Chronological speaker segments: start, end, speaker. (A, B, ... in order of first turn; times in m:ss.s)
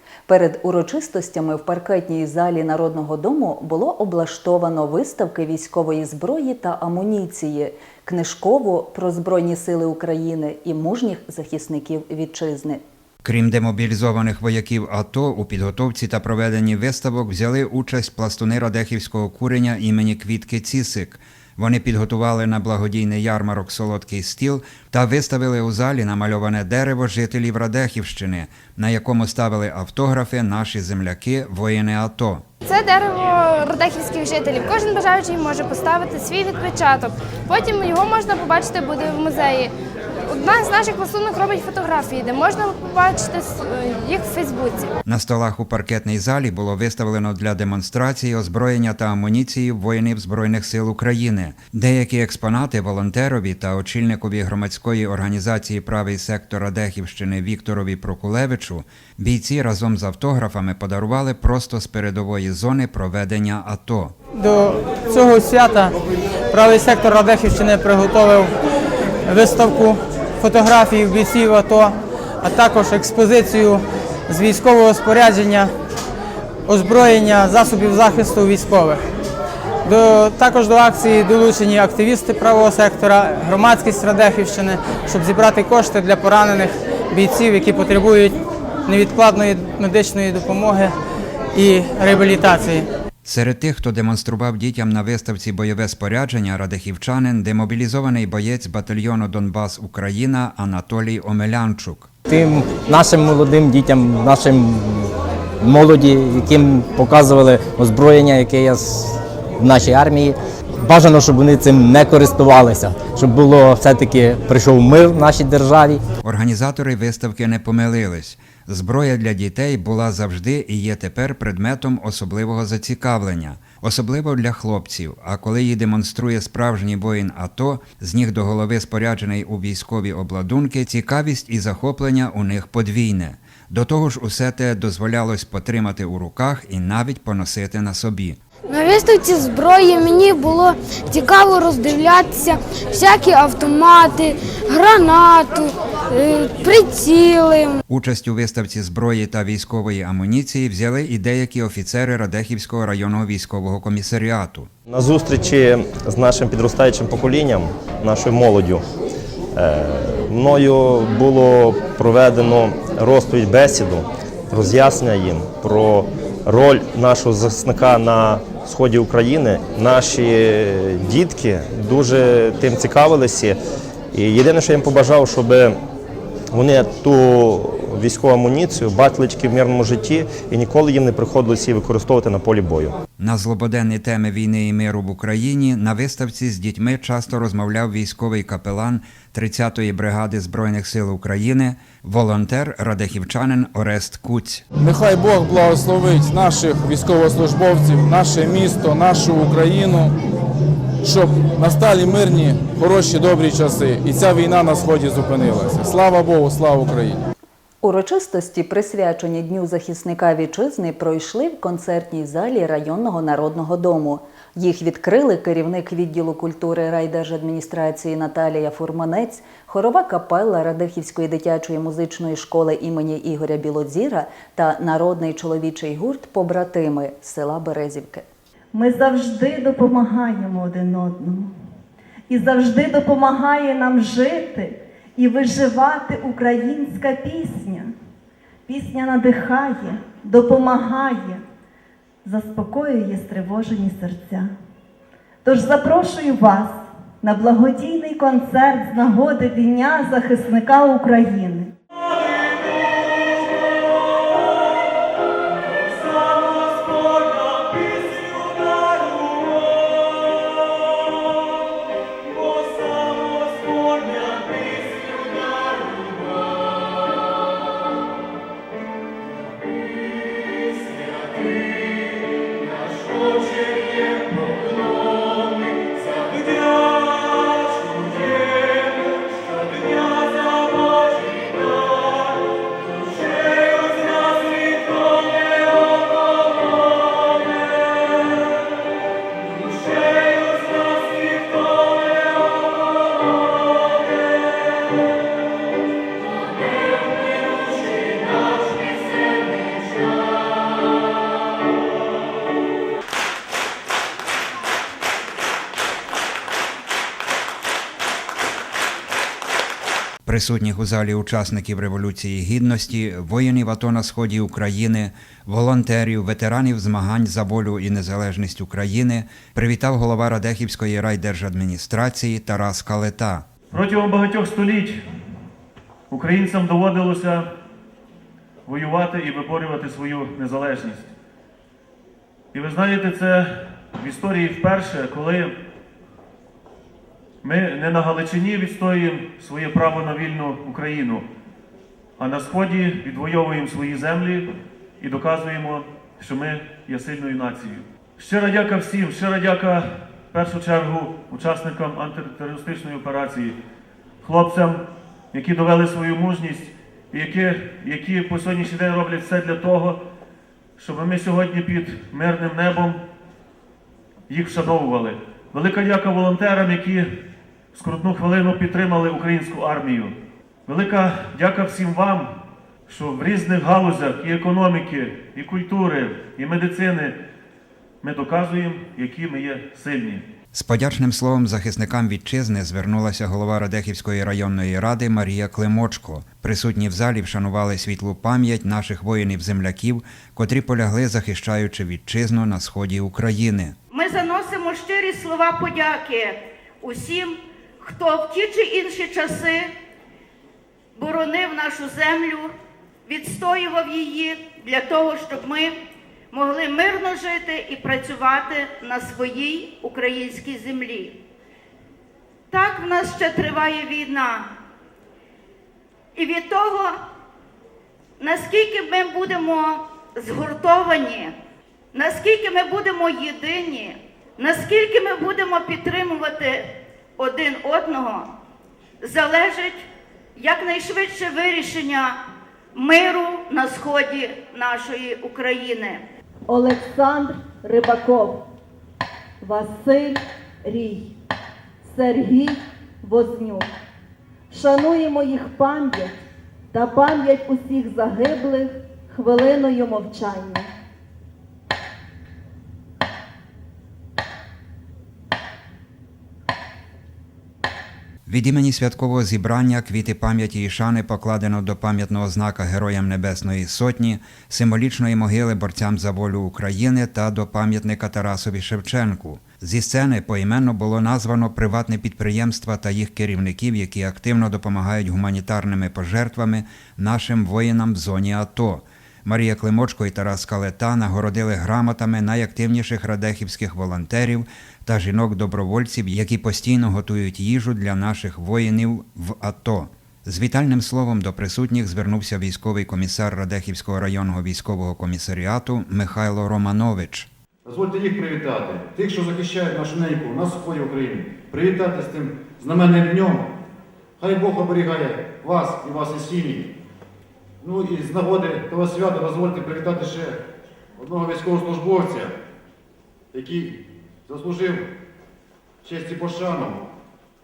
0:00.3-0:12.8 A
0:13.2-0:32.5 B
0:32.7-0:39.7 C
0:40.3-0:44.9 C
0:45.1-1:04.2 B
1:04.3-1:06.0 D
1:06.5-1:08.6 D
1:09.3-1:15.7 D
1:16.7-1:19.0 D
1:19.8-1:30.9 D
1:31.5-1:32.9 D
1:33.2-1:42.1 B
1:42.3-1:45.1 E
1:45.6-1:56.0 E
1:56.2-2:18.4 B
2:18.7-2:27.8 F
2:27.9-2:34.7 B
2:34.9-2:38.8 G
2:39.6-2:53.6 G
2:54.1-2:55.8 G
2:56.5-3:03.0 G
3:03.2-3:14.6 B
3:14.8-3:20.1 H
3:21.0-3:27.2 H
3:27.8-3:48.3 A
3:48.7-3:51.5 I
3:52.3-3:57.9 I
3:58.7-4:01.4 I
4:02.2-4:04.5 I
4:05.4-4:11.7 I
4:12.1-4:14.8 J
4:15.7-4:20.5 J
4:22.2-4:26.5 J
4:32.9-4:34.7 J
4:35.7-4:38.9 J
4:39.6-4:42.1 J
4:43.1-4:45.4 J
4:50.0-4:50.4 J
5:10.2-5:23.5 B
5:23.7-5:25.0 J
5:26.1-5:27.5 J
5:28.7-5:31.1 J
5:32.5-5:35.5 J
5:37.4-5:41.2 J
5:42.2-5:53.6 J
5:54.2-6:00.0 J
6:00.8-6:03.0 J
6:04.3-6:07.1 J
6:07.8-6:10.1 J
6:10.7-6:12.3 J
6:12.9-6:17.2 J
6:18.0-6:20.2 J
6:20.5-6:33.8 B
6:33.9-6:39.7 K
6:41.0-6:42.5 K
6:43.1-6:45.8 K
6:46.3-6:51.2 K
6:52.5-6:54.5 K
6:56.2-6:57.0 K
6:58.2-7:01.4 K
7:01.9-7:08.3 K
7:09.0-7:12.2 K
7:12.7-7:16.0 K
7:16.5-7:18.4 I
7:19.4-7:21.1 I
7:21.8-7:23.7 I
7:24.5-7:26.2 I
7:26.7-7:30.7 I
7:38.3-8:17.3 B
8:17.6-8:23.5 L
8:24.2-8:26.7 L
8:27.6-8:30.4 L
8:31.0-8:32.3 L
8:33.3-8:34.9 L
8:35.8-8:36.8 L